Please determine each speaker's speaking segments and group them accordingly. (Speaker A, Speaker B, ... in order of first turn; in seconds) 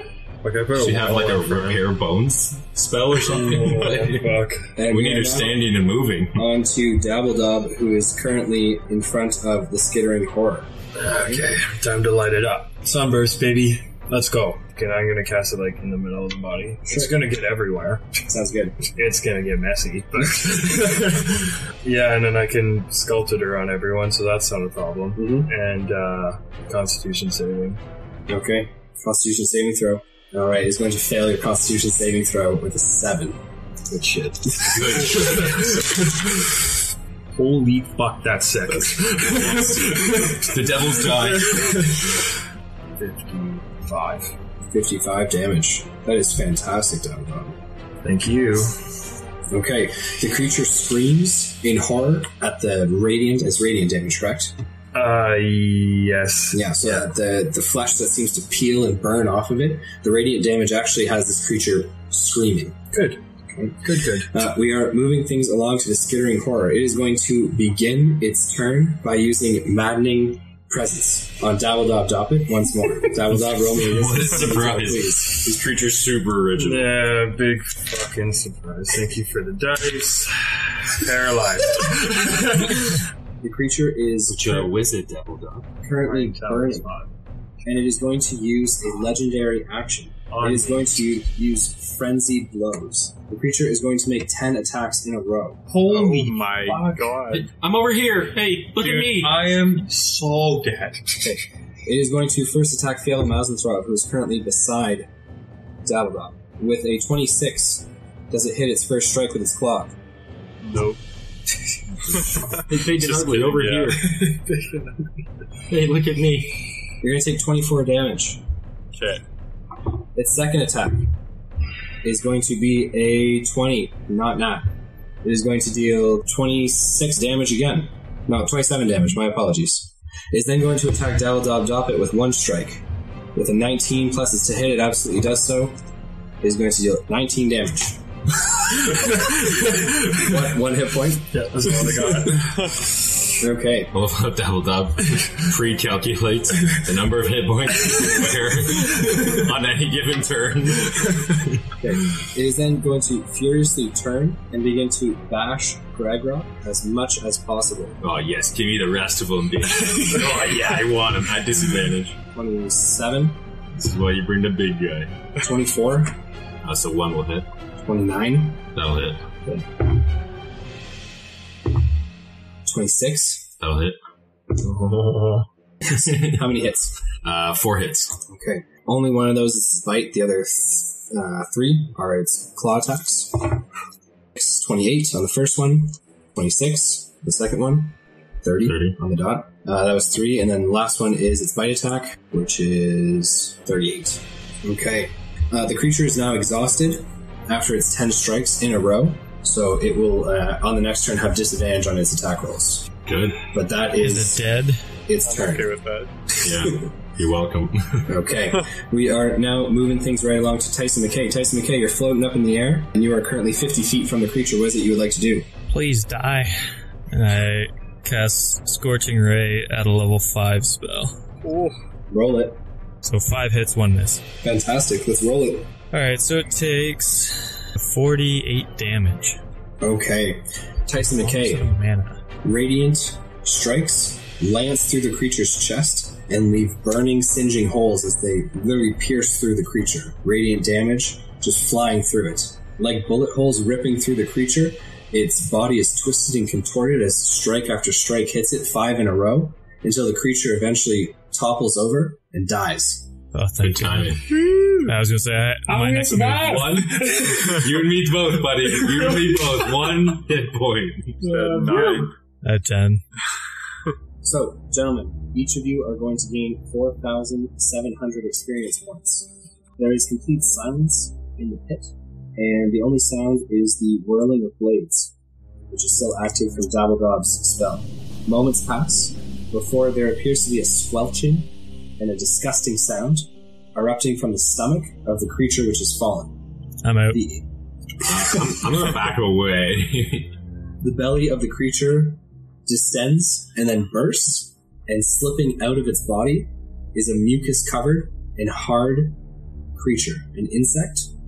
Speaker A: 0.4-1.9, 3.2-4.6, 10.9-18.2, 18.9-27.8, 33.9-36.5, 37.4-42.2, 43.0-44.3, 48.0-48.8, 54.9-57.0, 62.9-63.2, 63.8-64.3, 76.6-83.0, 86.0-87.1, 90.3-91.0, 95.7-97.1, 98.8-101.5, 113.7-114.9, 141.3-142.9, 159.9-160.2, 174.6-175.5, 254.4-254.8, 255.7-257.7, 258.8-259.5, 261.2-262.1
Speaker B: 0.7-6.5, 34.7-36.0, 39.3-42.1, 73.5-77.0, 84.3-85.7, 97.3-99.4, 112.6-114.4, 115.7-116.7, 143.9-151.7, 158.0-162.2, 163.7-165.2, 166.6-167.5, 168.7-169.2, 173.6-174.0, 175.9-176.4, 177.2-178.2, 188.6-189.0, 203.1-203.5, 206.4-208.2, 253.6-254.3, 257.3-261.3, 288.1-290.3
Speaker C: 4.8-5.6, 6.3-11.5, 16.9-17.1, 18.3-18.9, 25.2-25.5, 28.3-33.4, 44.7-47.5, 49.5-54.5, 56.5-62.8, 63.5-75.4, 83.4-84.7, 85.8-86.9, 87.7-95.6, 101.9-105.1, 105.8-109.9, 117.0-118.4, 120.2-121.1, 122.0-124.7, 125.2-132.8, 133.3-135.8, 136.4-138.0, 138.7-141.4, 143.4-143.9, 151.8-158.0, 162.3-163.4, 165.4-166.2, 167.8-168.6, 172.7-173.5, 175.8-177.0, 178.3-183.6, 184.3-202.9, 203.5-204.5, 205.1-205.7, 208.1-215.5, 222.1-222.6, 224.4-225.7, 229.8-231.7, 232.4-253.1, 264.2-275.1, 275.7-286.4, 287.1-287.4, 288.1-288.5, 290.8-299.2, 299.8-301.1
Speaker D: 95.8-97.5, 110.6-111.0, 112.1-114.0, 118.9-119.2, 205.2-206.1, 221.4-221.8, 261.2-262.1
Speaker E: 204.0-204.8, 215.7-216.5, 217.1-221.2, 223.0-224.2, 225.9-229.4, 231.1-232.2, 253.3-254.2, 254.9-257.0, 262.4-263.0, 286.8-287.2